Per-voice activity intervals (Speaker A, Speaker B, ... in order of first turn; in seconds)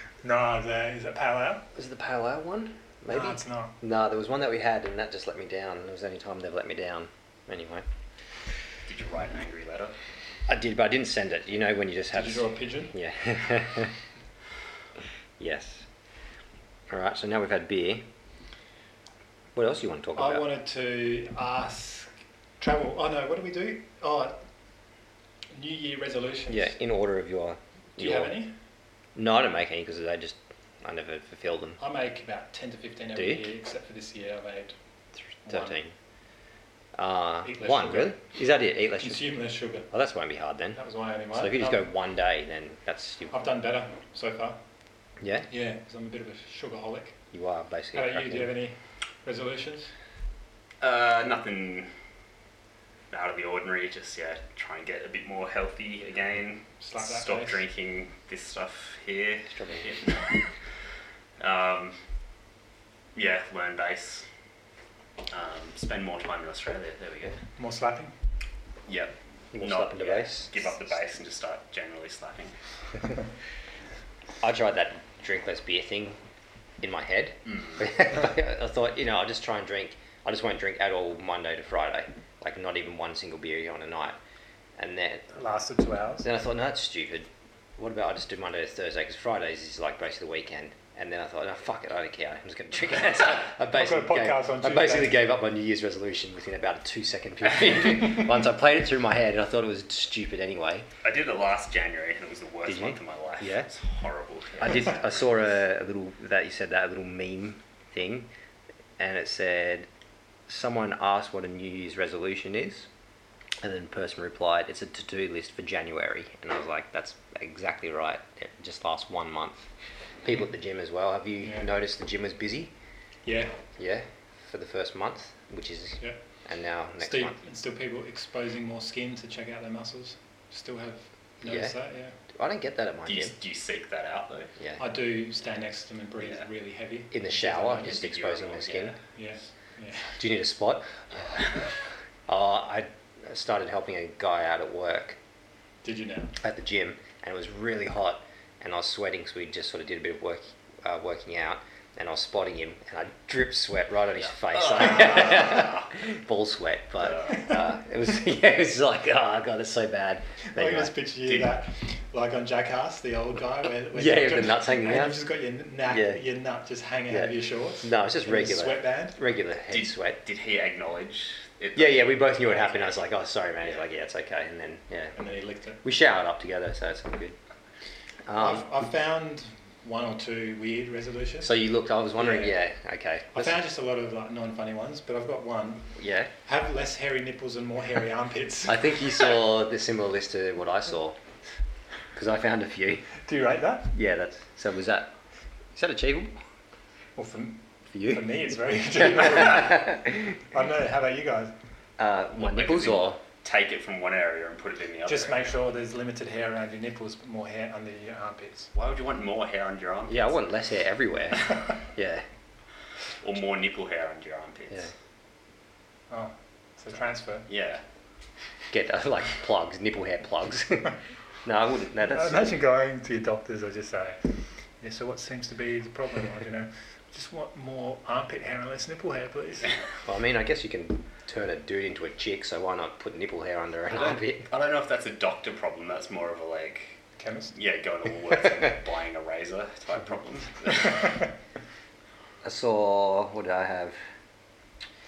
Speaker A: 0.2-1.7, 3.1-3.7, 12.1-12.9, 20.1-24.4, 25.5-26.8, 28.0-28.5, 31.8-34.7, 35.4-35.8, 37.4-38.1, 39.0-39.9, 40.8-41.9, 43.3-44.6, 45.5-47.2, 47.9-49.9, 56.8-57.6, 67.6-68.1, 85.3-86.3, 93.7-95.2, 121.4-121.7, 123.2-123.6, 127.0-132.2, 134.8-137.9, 139.2-140.2, 145.8-146.3, 160.5-169.2, 175.2-175.8, 178.3-181.5, 182.2-182.6, 183.3-189.0, 193.2-193.9, 197.2-201.5, 205.1-208.7, 216.1-217.5, 222.1-224.2, 224.8-229.7, 237.2-237.5
Speaker B: 1.7-7.8, 10.5-13.9, 15.4-15.9, 16.9-18.1, 19.5-20.4, 26.5-28.4, 29.1-31.8, 33.1-33.5, 35.5-35.9, 36.9-39.4, 39.9-40.8, 41.3-43.3, 45.2-45.5, 47.3-48.5, 59.5-60.0, 69.5-70.8, 74.4-76.2, 76.8-84.2, 84.8-85.3, 86.2-100.9, 102.7-103.7, 104.6-108.3, 109.0-109.9, 110.5-112.9, 113.6-119.7, 120.2-122.7, 123.8-127.4, 131.4-131.8, 132.3-133.3, 137.1-138.9, 140.2-141.4, 142.3-145.2, 146.4-160.9, 163.9-165.2, 165.8-166.2, 167.1-170.2, 171.7-175.2, 175.8-177.3, 178.3-178.7, 181.4-183.6, 185.9-186.3, 188.7-191.2, 192.1-193.1, 193.9-195.1, 195.7-196.3, 197.9-198.4, 199.2-200.2, 202.0-203.2, 210.1-212.2, 218.7-222.6, 230.0-234.5, 242.4-244.0
Speaker C: 8.8-9.9, 50.8-51.9, 53.1-60.5, 61.4-62.0, 63.1-64.3, 65.3-67.4, 68.9-72.5, 77.5-77.8, 101.0-105.2, 133.1-134.5, 137.7-139.0, 154.5-155.9, 157.0-157.5, 161.2-161.5, 169.7-173.0, 173.6-173.8, 202.3-205.6, 208.7-210.4, 213.2-214.9, 217.5-217.8, 233.9-237.0, 237.5-241.2